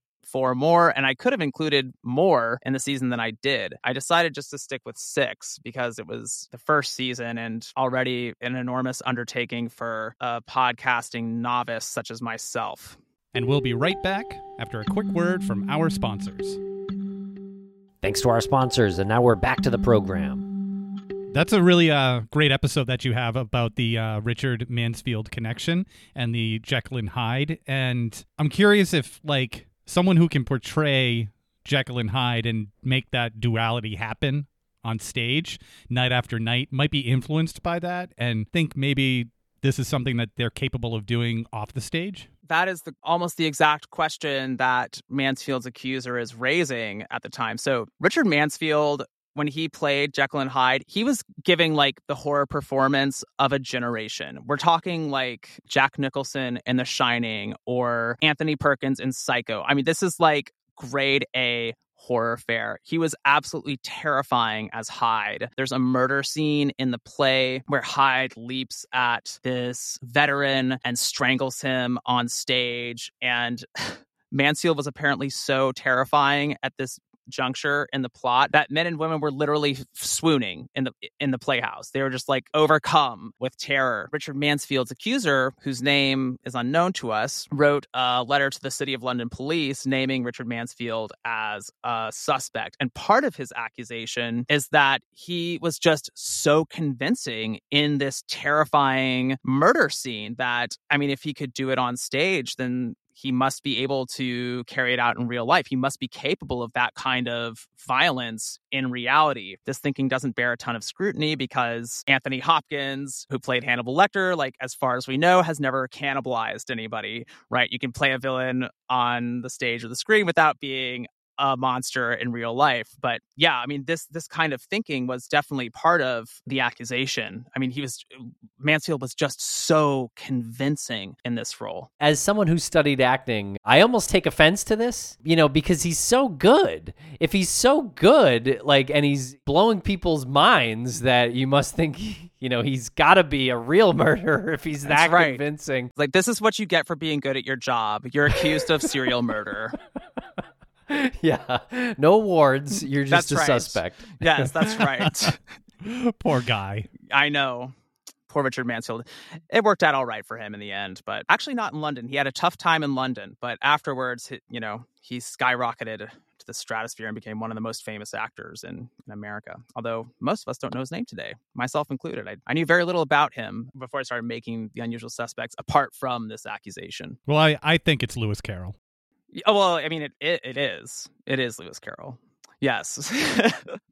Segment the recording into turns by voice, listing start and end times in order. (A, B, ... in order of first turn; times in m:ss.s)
0:00.2-0:13.0 A
0:13.3-0:16.6 B
0:18.0-0:20.5 C
0:21.3-0:42.3 B
0:42.5-2:11.9 A
2:12.0-2:25.9 C
2:24.8-2:25.4 A
2:25.9-2:29.8 A
2:30.9-2:34.8 C
2:33.1-2:35.4 A
2:35.8-2:36.9 B
2:37.0-2:37.7 A
2:38.3-2:57.2 A
2:57.3-2:58.7 B
2:59.3-3:03.8 A